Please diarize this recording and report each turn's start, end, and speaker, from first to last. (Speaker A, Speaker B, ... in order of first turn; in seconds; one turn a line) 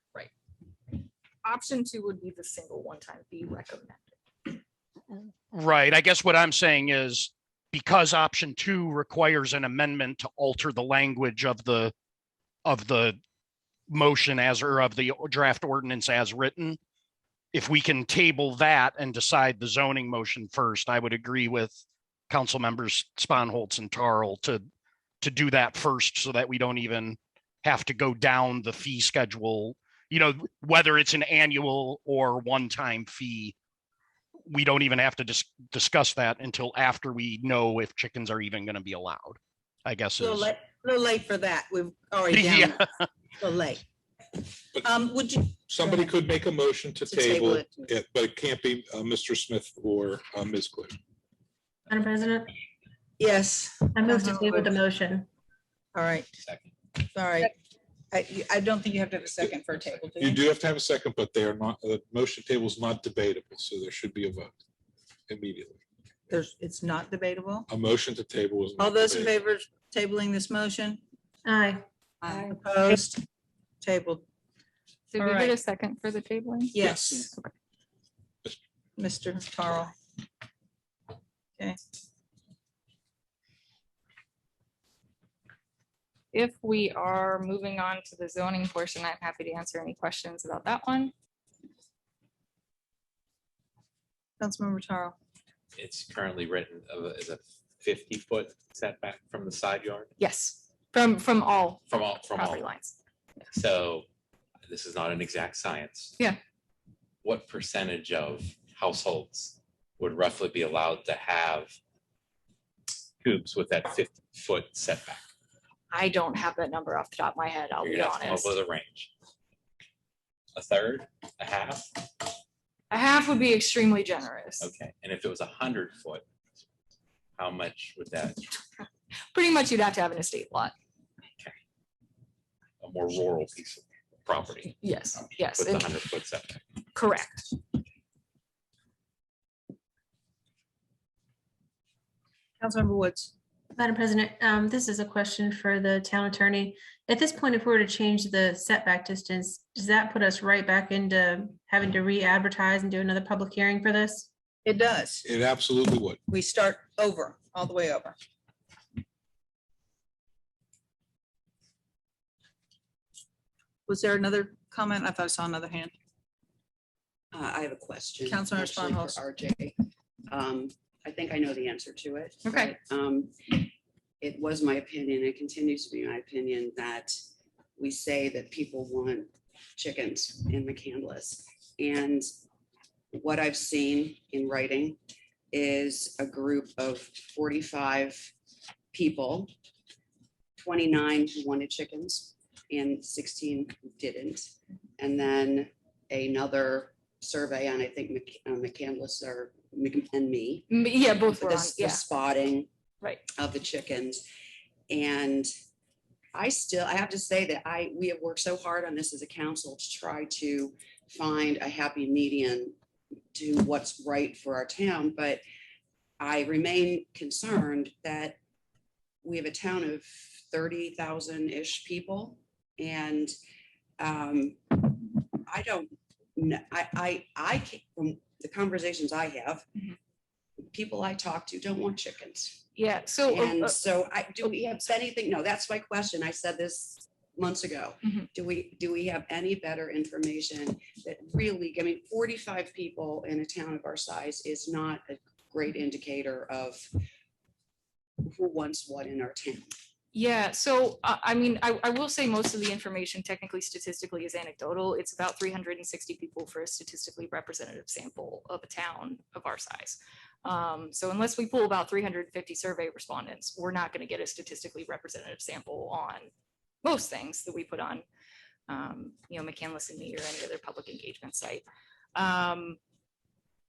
Speaker A: 0.9-4.6
Speaker B: 5.1-11.9
Speaker B: 12.7-13.2
Speaker B: 13.9-16.8
Speaker B: 17.5-24.6
Speaker B: 25.2-33.5
Speaker B: 34.5-40.5
Speaker C: 40.2-42.9
Speaker B: 42.3-43.1
Speaker C: 43.4-43.8
Speaker C: 44.8-46.1
Speaker D: 45.5-51.0
Speaker C: 47.0-47.9
Speaker E: 51.9-52.5
Speaker C: 53.2-54.8
Speaker E: 53.9-55.3
Speaker C: 55.9-56.3
Speaker F: 56.4-56.7
Speaker C: 57.1-57.5
Speaker C: 58.1-60.4
Speaker D: 60.2-64.6
Speaker D: 65.3-65.8
Speaker C: 66.3-67.7
Speaker D: 67.7-69.4
Speaker C: 68.8-71.0
Speaker E: 71.5-71.8
Speaker C: 72.2-73.2
Speaker C: 73.8-74.2
Speaker A: 75.1-77.5
Speaker C: 75.2-75.6
Speaker C: 76.7-77.3
Speaker D: 76.8-77.3
Speaker C: 79.0-79.9
Speaker A: 86.3-91.1
Speaker C: 94.4-95.2
Speaker F: 95.8-100.1
Speaker A: 100.2-103.0
Speaker F: 101.9-102.7
Speaker F: 103.5-104.1
Speaker F: 104.7-106.2
Speaker F: 107.2-111.8
Speaker F: 113.2-115.2
Speaker A: 115.9-118.5
Speaker F: 117.8-119.1
Speaker F: 120.6-122.1
Speaker A: 122.9-124.7
Speaker F: 124.6-126.2
Speaker F: 127.4-128.6
Speaker A: 129.3-130.7
Speaker F: 132.8-136.6
Speaker A: 134.8-135.9
Speaker A: 136.9-137.6
Speaker C: 142.6-143.3
Speaker E: 143.8-154.3
Speaker C: 154.7-155.3
Speaker D: 155.2-156.2
Speaker C: 156.3-158.2
Speaker C: 163.9-165.9
Speaker G: 167.3-177.2
Speaker C: 168.3-169.2
Speaker A: 172.5-172.7
Speaker G: 177.8-182.3
Speaker G: 183.1-185.0
Speaker G: 185.5-188.3
Speaker G: 188.9-189.5
Speaker G: 190.6-202.7
Speaker A: 200.7-202.1
Speaker G: 203.3-204.2
Speaker G: 204.9-205.5
Speaker G: 206.3-212.8
Speaker G: 213.3-215.4
Speaker G: 216.2-218.4
Speaker G: 219.2-223.3
Speaker G: 224.0-229.7
Speaker G: 230.7-232.7
Speaker A: 232.8-233.8
Speaker G: 233.2-246.9
Speaker G: 248.2-249.7
Speaker A: 250.1-266.3
Speaker A: 266.8-268.1
Speaker A: 268.7-272.8